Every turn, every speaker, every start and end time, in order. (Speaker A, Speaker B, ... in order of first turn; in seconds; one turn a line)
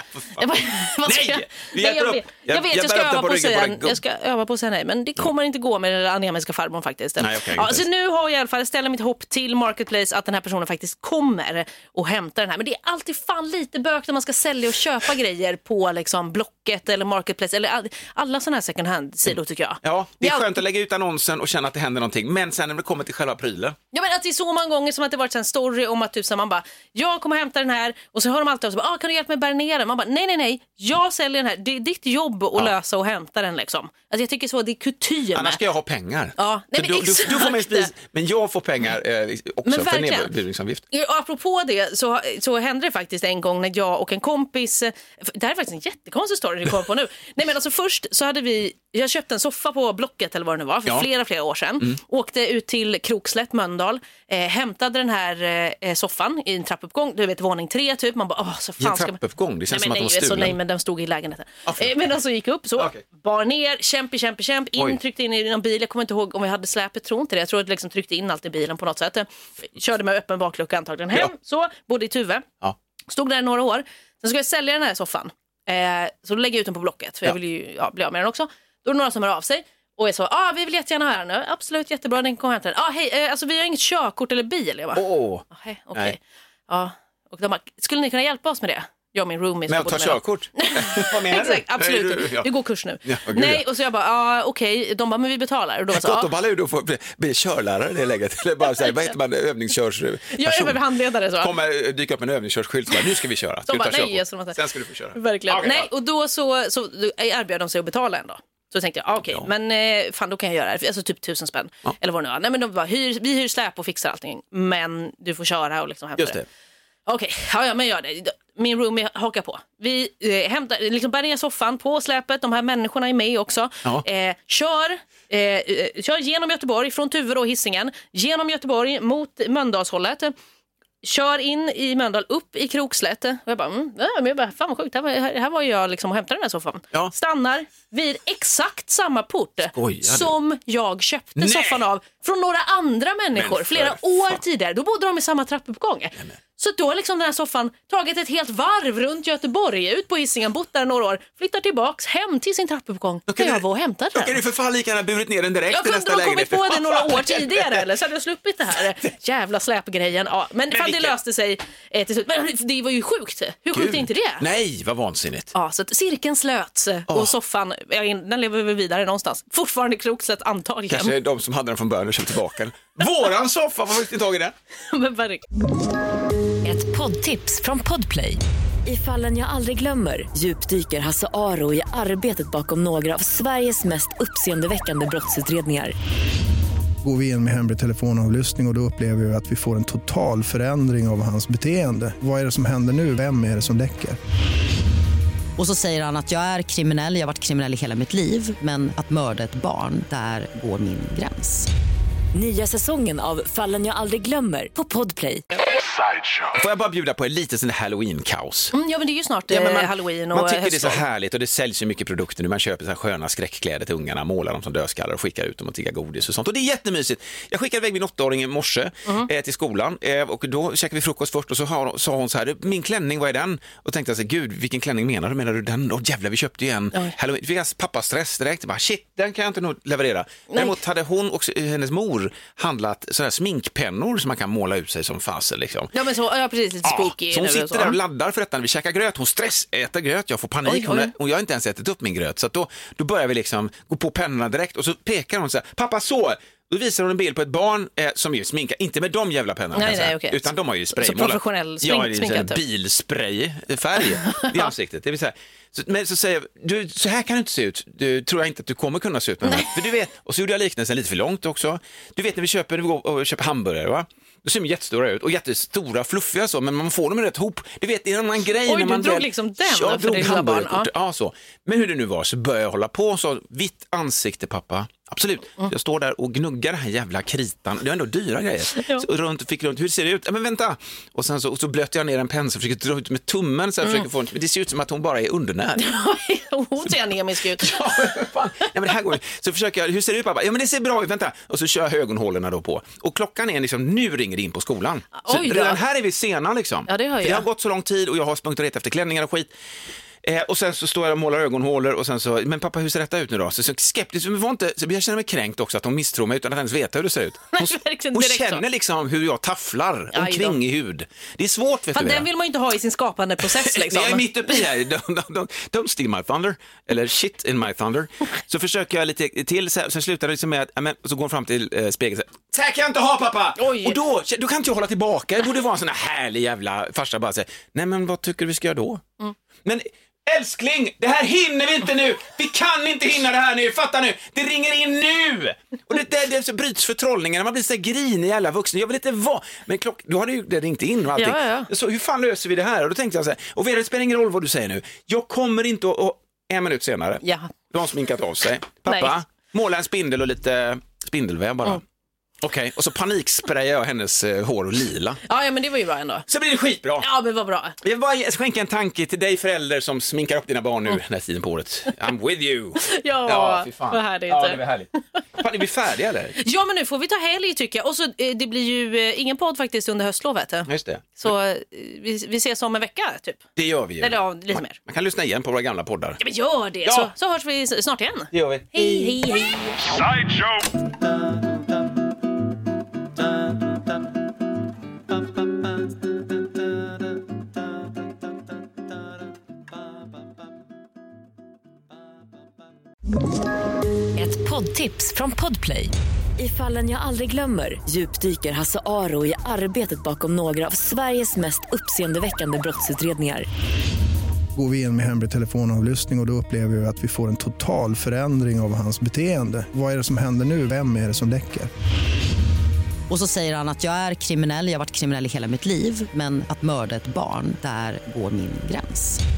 Speaker A: 0.2-0.5
Speaker B: 0.3-20.6
Speaker A: 1.1-4.0
Speaker A: 7.2-7.8
Speaker A: 19.8-23.8
Speaker B: 23.9-35.6
Speaker A: 35.3-40.8
Speaker B: 36.4-37.9
Speaker B: 39.7-40.3
Speaker B: 40.9-72.5
Speaker A: 58.8-60.6
Speaker A: 62.8-63.0
Speaker B: 73.1-96.3
Speaker A: 85.0-86.2
Speaker A: 89.7-92.5
Speaker A: 93.0-93.7
Speaker A: 95.9-100.8
Speaker B: 98.8-99.1
Speaker B: 100.3-101.5
Speaker A: 101.4-105.9
Speaker B: 103.7-104.6
Speaker B: 105.1-116.4
Speaker A: 116.2-116.5
Speaker B: 117.1-130.3
Speaker B: 131.0-154.4
Speaker A: 139.7-140.3
Speaker A: 141.4-141.9
Speaker A: 143.3-144.4
Speaker A: 153.3-153.6
Speaker A: 154.1-157.8
Speaker B: 155.7-164.5
Speaker A: 160.7-161.1
Speaker A: 163.7-165.5
Speaker B: 165.5-171.2
Speaker A: 170.9-174.5
Speaker B: 174.9-175.4
Speaker C: 176.6-185.9
Speaker D: 187.0-194.2
Speaker E: 195.6-201.7
Speaker C: 202.3-205.4
Speaker A: 206.5-208.7
Speaker B: 208.7-211.0
Speaker A: 209.5-235.9
Speaker B: 235.9-238.0
Speaker A: 236.8-285.9
Speaker B: 240.7-241.1
Speaker B: 249.7-252.6
Speaker B: 254.2-254.7
Speaker B: 259.4-259.7
Speaker B: 268.5-270.9
Speaker B: 278.7-279.1
Speaker B: 285.8-288.1
Speaker A: 287.5-299.5
Speaker B: 295.2-295.8
Speaker B: 296.9-297.4
Speaker A: 300.2-312.3
Speaker B: 307.5-308.6
Speaker B: 310.1-310.6
Speaker B: 311.9-314.5
Speaker A: 313.4-329.0
Speaker B: 323.6-324.0
Speaker A: 329.6-351.8
Speaker B: 341.1-341.7
Speaker B: 347.2-347.5
Speaker B: 348.9-349.1
Speaker A: 352.4-355.2
Speaker B: 355.3-356.3
Speaker A: 356.3-357.1
Speaker B: 357.0-357.8
Speaker A: 357.8-366.4
Speaker B: 362.8-365.2
Speaker B: 366.4-373.4
Speaker A: 370.7-371.3
Speaker A: 373.6-376.2
Speaker B: 374.0-374.8
Speaker B: 376.2-380.0
Speaker A: 376.9-377.1
Speaker A: 378.3-379.1
Speaker C: 394.2-403.5
Speaker D: 404.6-411.7
Speaker E: 413.1-419.2